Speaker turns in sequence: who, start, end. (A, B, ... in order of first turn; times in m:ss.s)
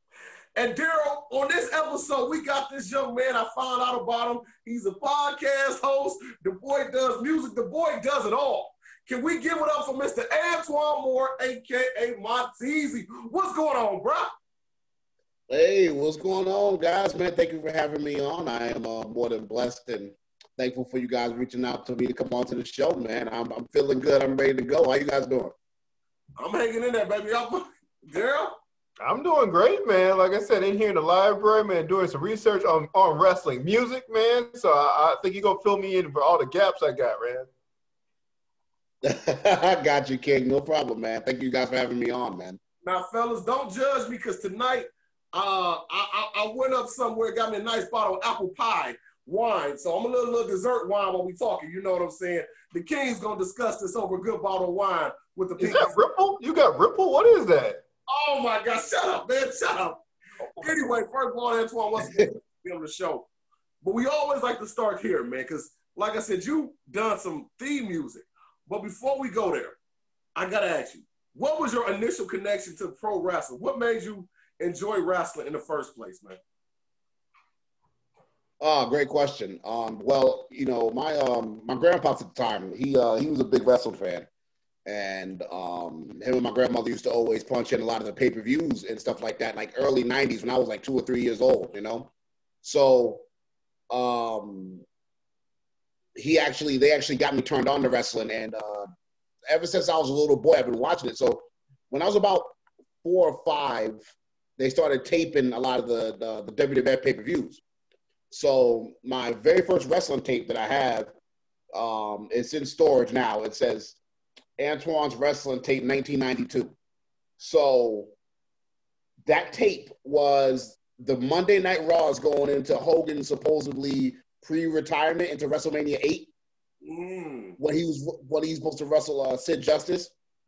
0:00.6-0:14.3 A
0:15.5-0:25.5 B
0:26.4-0:28.6 A
0:29.0-0:37.5 C
0:39.0-0:42.6 B
0:42.8-0:56.0 A
0:55.6-0:57.8 C
0:58.1-1:00.0 A
1:00.6-1:03.3 A
1:03.8-1:09.8 A
1:10.4-1:16.4 A
1:18.6-1:24.3 B
1:24.8-1:32.1 B
1:32.6-1:33.2 B
1:33.9-1:34.8 B
1:36.2-1:38.9 B
1:39.5-1:47.6 B
1:48.3-1:51.1 B
1:51.7-1:54.0 B
1:54.6-1:56.7 B
1:57.4-1:58.1 B
1:59.2-2:06.3 B
2:06.8-2:07.6 A
2:07.6-2:10.1 B